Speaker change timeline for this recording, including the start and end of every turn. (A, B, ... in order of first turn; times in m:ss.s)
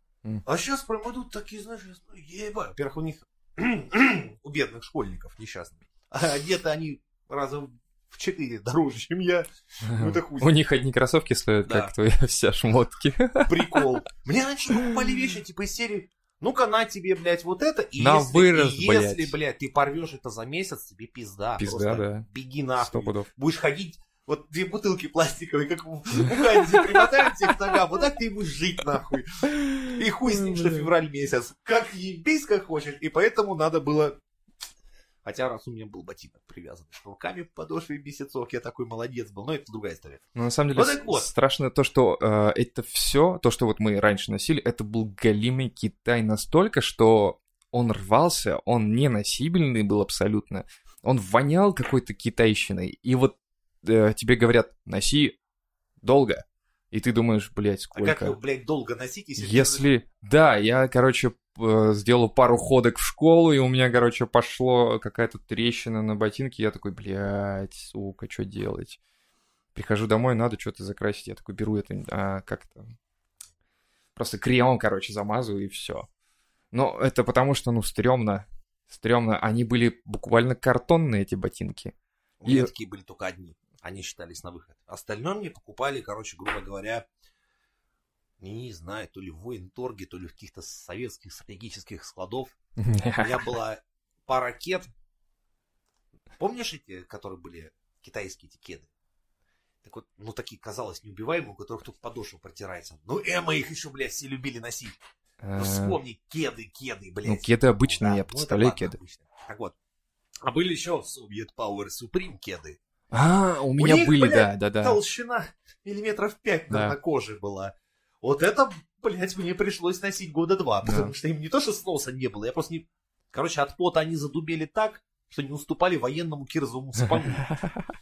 0:00.4-0:10.5 A
0:09.8-0:14.0 B
0:11.7-0:11.9 A
0:13.5-0:34.2 A
0:14.7-0:15.2 B
0:18.0-0:19.4 B
0:21.6-0:22.3 B
0:22.8-0:23.3 B
0:26.2-0:27.5 B
0:29.6-0:30.9 B
0:35.2-0:40.2 A
0:40.4-0:55.4 B
0:40.7-0:41.3 A
0:56.0-0:58.4 B
0:57.9-0:59.8 A
0:59.4-1:09.0 B
1:09.8-1:12.9 B
1:14.2-1:16.1 B
1:16.7-1:21.9 B
1:22.4-1:27.1 A
1:28.4-1:32.5 A
1:32.8-1:33.6 B
1:33.2-1:34.9 A
1:36.4-1:38.9 A
1:39.8-1:45.0 A
1:45.4-1:46.0 B
1:45.6-1:49.8 A
1:47.2-1:49.0 B
1:50.4-1:52.8 A
1:53.1-1:55.0 B
1:53.8-2:07.6 A
1:56.7-1:57.0 B
2:00.8-2:01.1 B
2:07.0-2:07.9 B